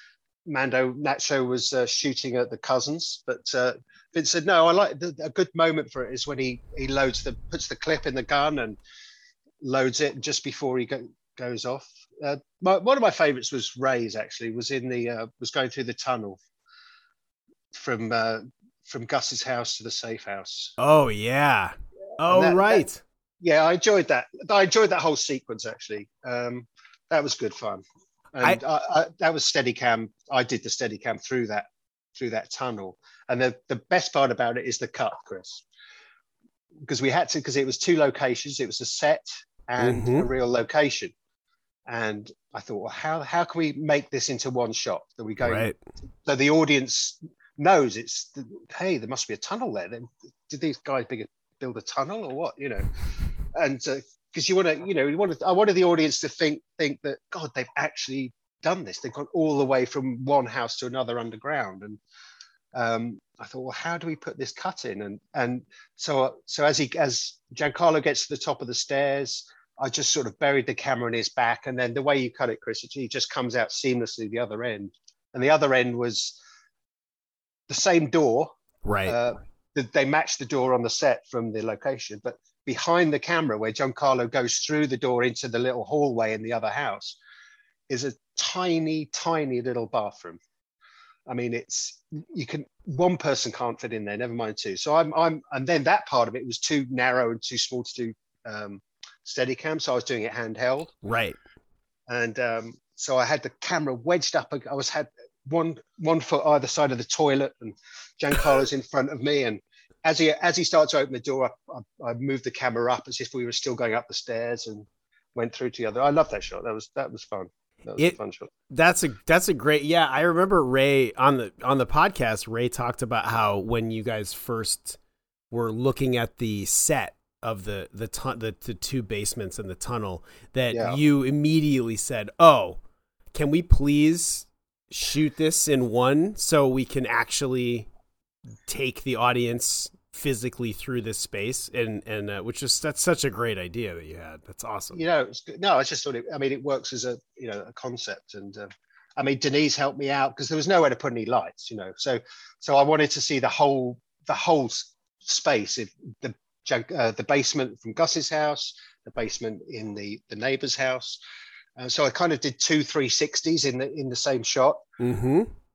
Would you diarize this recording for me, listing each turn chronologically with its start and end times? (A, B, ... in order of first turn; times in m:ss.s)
0:00.4-0:08.8 A
0:09.6-0:16.4 A
0:17.7-0:20.7 A
0:20.8-0:23.0 B
0:22.2-0:22.8 A
0:23.4-0:35.6 A
0:36.8-0:41.1 A
0:39.8-0:40.3 B
0:41.9-0:45.7 A
0:45.4-0:45.8 B
0:46.2-0:53.0 A
0:53.5-1:02.0 A
1:02.7-1:16.4 A
1:17.7-1:18.5 A
1:18.8-1:19.2 B
1:19.0-1:27.2 A
1:27.9-1:30.4 A
1:31.3-1:41.0 A
1:41.0-1:41.4 B
1:42.1-1:58.5 A
1:58.7-2:05.0 B
2:05.5-2:12.8 B
2:10.7-2:11.0 A
2:13.3-2:17.9 B
2:18.7-2:25.0 B
2:24.9-2:41.2 A
2:41.8-2:44.8 A
2:45.0-2:45.5 B